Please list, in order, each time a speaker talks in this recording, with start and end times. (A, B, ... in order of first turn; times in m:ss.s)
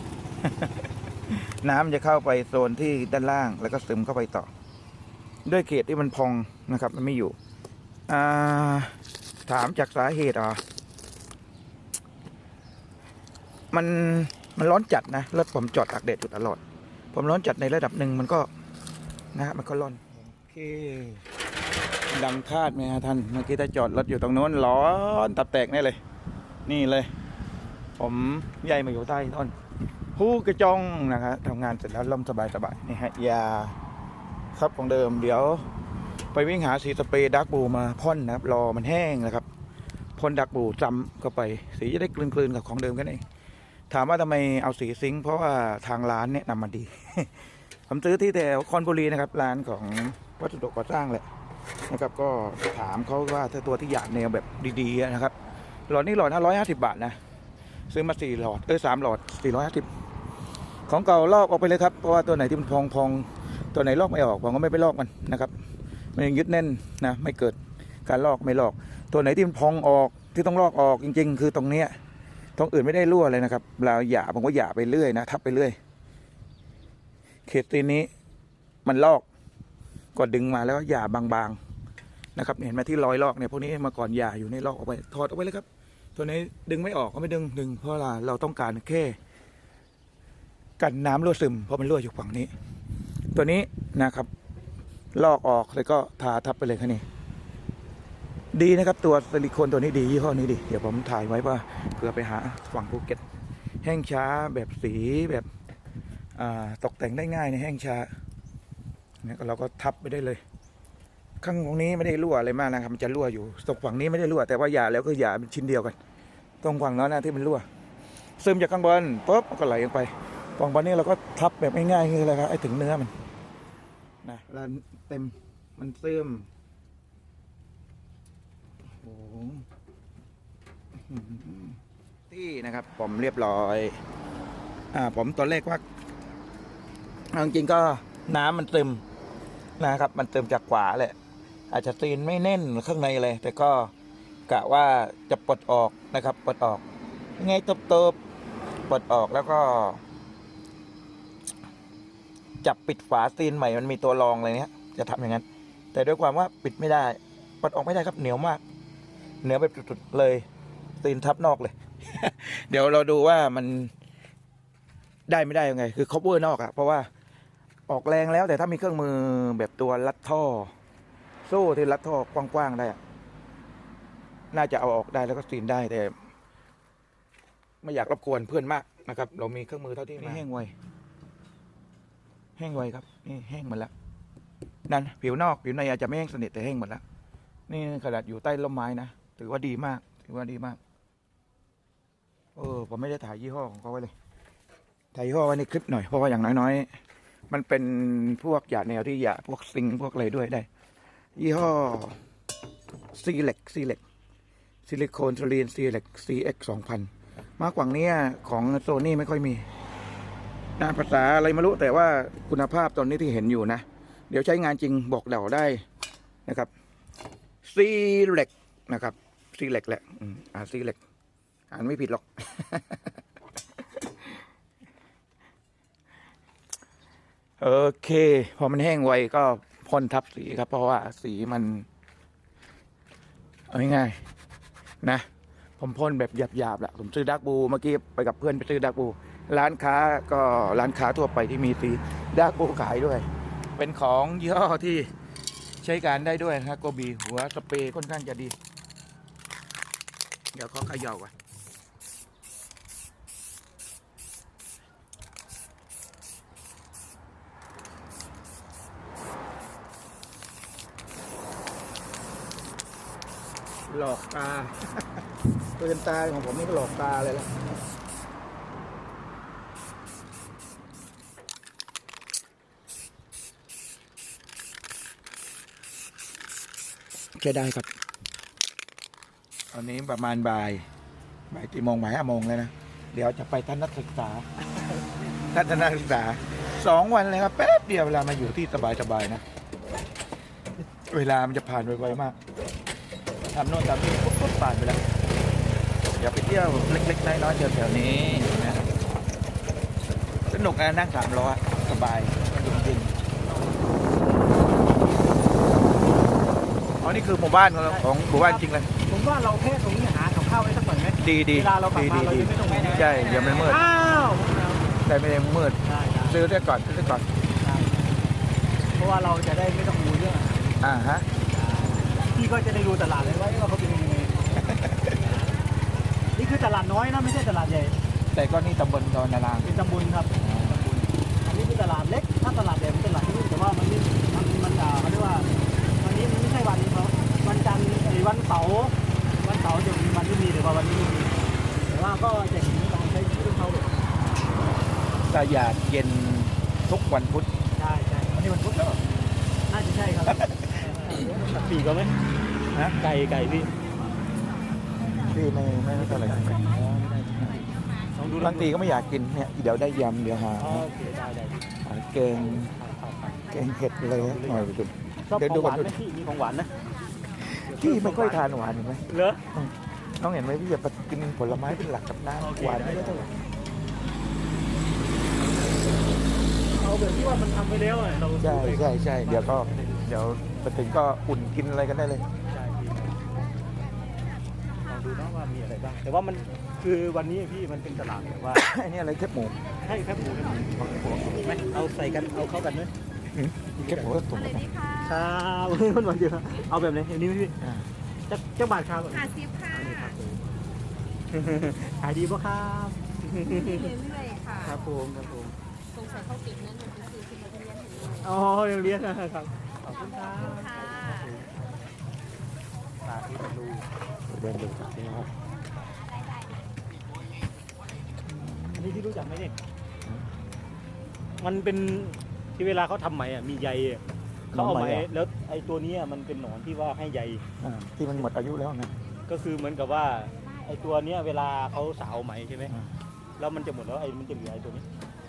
0:00.4-0:04.5 A
0:05.5-0:07.4 A
0:08.1-0:10.6 A
0:13.7-0:16.6 A
0:17.1-0:18.5 A
0:19.4-0:21.2 A
0:22.1-0:26.0 A
0:26.7-0:27.1 A
0:28.0-0:29.6 A
0:30.2-0:33.8 A
0:34.5-0:35.7 A
0:36.3-0:39.4 A
0:40.2-0:43.2 A
0:43.9-0:47.3 A
0:47.9-0:51.2 A
0:51.9-0:55.3 A
0:55.9-0:57.2 A
0:57.9-0:59.9 A
1:00.9-1:05.5 A
1:06.2-1:12.0 A
1:12.6-1:15.8 A
1:17.5-1:18.1 A
1:18.8-1:19.2 A
1:20.2-1:21.6 A
1:22.4-1:25.6 A
1:26.2-1:29.2 A
1:30.8-1:32.5 A
1:33.3-1:34.3 A
1:35.2-1:37.0 A
1:38.5-1:43.2 A
1:43.8-1:45.5 A
1:46.4-1:48.1 A
1:49.2-1:50.4 A
1:51.4-1:56.0 A
1:56.6-1:57.7 A
1:58.4-2:03.1 A
2:04.2-2:06.5 A
2:09.0-2:09.6 A
2:11.1-2:11.8 A
2:12.3-2:14.0 A
2:14.9-2:15.8 A
2:17.3-2:19.0 A
2:19.8-2:21.2 A
2:21.7-2:23.9 A
2:24.5-2:26.8 A
2:27.4-2:28.2 A
2:28.9-2:30.0 A
2:32.6-2:38.6 A
2:39.4-2:40.4 A
2:41.0-2:43.9 A
2:45.3-2:47.1 A
2:47.9-2:50.7 A
2:51.4-2:53.0 A
2:54.5-2:56.2 A
2:57.8-3:00.7 A
3:00.2-3:00.4 B
3:02.6-3:03.9 A
3:04.9-3:07.0 A
3:07.7-3:10.8 A
3:12.6-3:14.1 A
3:15.1-3:16.9 A
3:17.5-3:20.7 A
3:21.4-3:22.2 A
3:23.1-3:24.0 A
3:24.9-3:29.7 A
3:30.8-3:35.8 A
3:37.6-3:41.0 A
3:41.7-3:43.0 A
3:43.8-3:44.4 A
3:47.6-3:51.9 A
3:53.7-3:54.2 A
3:55.8-4:05.1 A
4:05.8-4:08.6 A
4:10.5-4:11.3 A
4:23.9-4:25.1 A
4:25.8-4:27.5 A
4:37.4-4:37.9 A
4:39.7-4:40.9 A
4:41.5-4:44.5 A
4:45.5-4:49.4 A
4:51.1-4:52.4 A
4:53.5-4:55.0 A
4:56.2-4:58.9 A
5:00.5-5:03.2 A
5:03.8-5:06.4 B
5:07.0-5:08.9 A
5:07.9-5:14.9 B
5:11.2-5:13.8 A
5:15.0-5:17.3 A
5:15.8-5:16.4 B
5:17.6-5:18.2 B
5:19.0-5:20.8 B
5:20.8-5:21.3 A
5:21.5-5:24.5 B
5:24.6-5:25.2 A
5:25.2-5:25.5 B
5:26.3-5:28.0 B
5:28.3-5:29.7 A
5:29.6-5:44.1 B
5:30.4-5:30.8 A
5:45.2-5:47.5 A
5:47.8-5:49.0 B
5:49.7-5:52.1 B
5:50.3-5:50.8 A
5:52.7-5:53.0 A
5:53.0-5:53.7 B
5:55.2-5:56.7 A
5:55.9-5:58.8 B
5:57.4-5:57.7 A
5:58.4-6:00.9 A
6:00.6-6:01.7 B
6:01.8-6:02.7 A
6:02.6-6:04.7 B
6:03.5-6:05.9 A
6:05.3-6:06.7 B
6:07.4-6:13.3 A
6:07.6-6:09.4 B
6:12.4-6:13.3 B
6:15.2-6:20.1 B
6:18.4-6:22.2 A
6:22.5-6:23.5 B
6:24.8-6:28.7 B
6:28.5-6:29.6 A
6:29.8-6:30.7 B
6:30.5-6:31.6 A
6:31.3-6:32.9 B
6:33.3-6:34.7 A
6:33.8-6:34.2 B
6:34.3-6:35.4 C
6:35.0-6:37.6 B
6:37.6-6:37.9 A
6:38.3-6:40.5 B
6:39.1-6:40.2 C
6:41.3-6:44.0 B
6:43.4-6:44.8 C
6:44.6-6:45.5 B
6:44.7-6:45.2 A
6:45.9-6:48.4 C
6:48.2-6:51.8 B
6:49.9-6:51.3 C
6:53.0-6:53.9 B
6:54.3-6:55.3 A
6:58.2-6:58.9 A
6:58.7-6:59.6 B
7:01.4-7:04.0 B
7:04.5-7:05.1 A
7:04.5-7:07.4 B
7:07.6-7:08.9 A
7:09.3-7:12.7 B
7:13.4-7:14.9 B